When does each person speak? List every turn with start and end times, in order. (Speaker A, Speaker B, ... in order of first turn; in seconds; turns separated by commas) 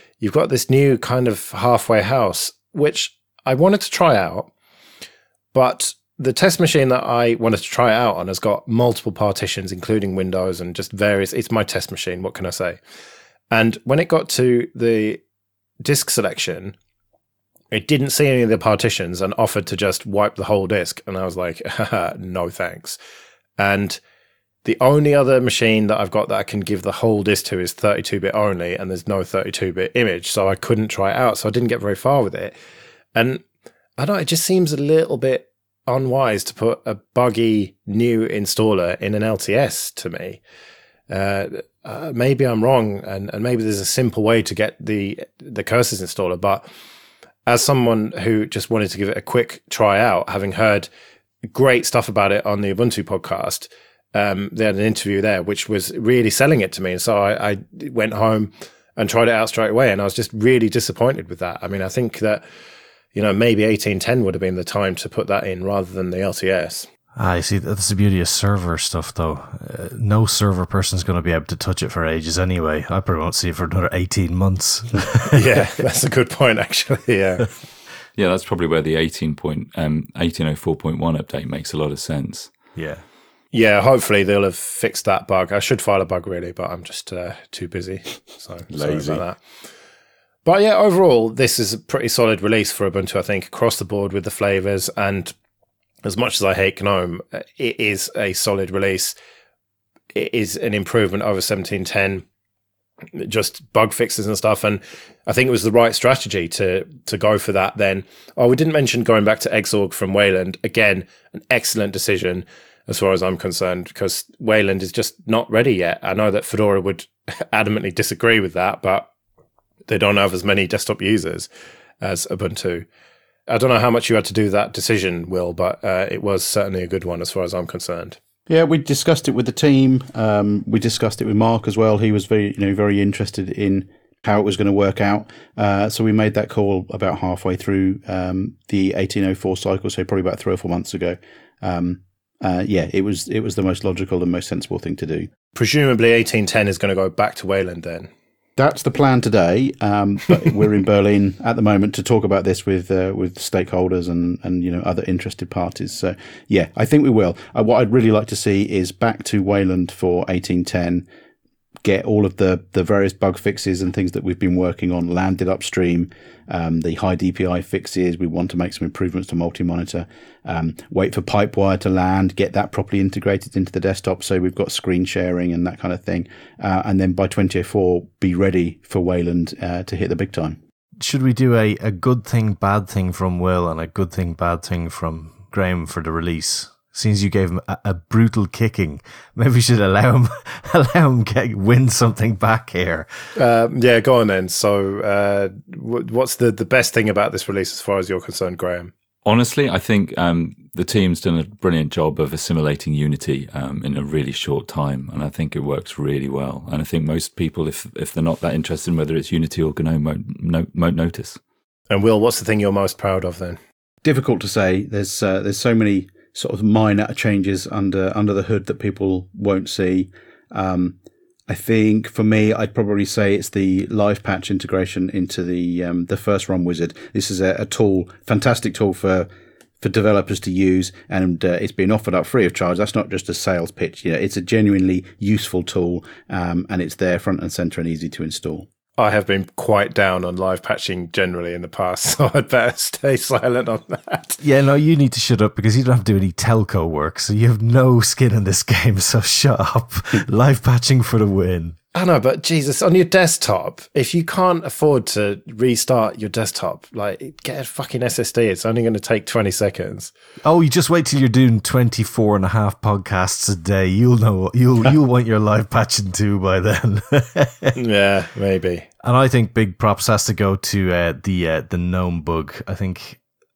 Speaker A: 0.2-4.5, Speaker A: 5.5-12.8, Speaker A: 13.5-15.2, Speaker A: 15.8-16.7, Speaker A: 17.7-23.0, Speaker A: 23.6-24.0, Speaker A: 24.6-32.5, Speaker A: 33.1-33.4, Speaker A: 34.0-40.4, Speaker A: 41.1-46.7, Speaker A: 47.5-50.9, Speaker A: 51.5-62.4, Speaker A: 63.1-66.9, Speaker B: 67.2-75.5, Speaker A: 75.3-77.5, Speaker C: 78.2-82.5, Speaker B: 82.8-83.0, Speaker A: 83.5-89.4, Speaker B: 88.9-89.2, Speaker A: 90.5-95.3, Speaker A: 96.0-99.2, Speaker A: 100.1-102.2, Speaker A: 103.1-119.1, Speaker A: 119.9-121.5, Speaker A: 122.0-122.9, Speaker A: 123.5-128.2, Speaker D: 128.5-145.3, Speaker A: 145.5-148.1, Speaker D: 148.6-161.1, Speaker D: 161.8-180.6, Speaker B: 181.0-193.1, Speaker A: 193.4-198.9, Speaker C: 199.2-211.4, Speaker A: 211.9-213.6, Speaker D: 214.0-220.9, Speaker D: 221.5-229.3, Speaker D: 229.8-238.7, Speaker A: 239.0-244.4, Speaker B: 244.4-251.8, Speaker A: 251.9-260.1, Speaker B: 260.4-267.7, Speaker A: 267.8-268.9, Speaker B: 269.0-273.2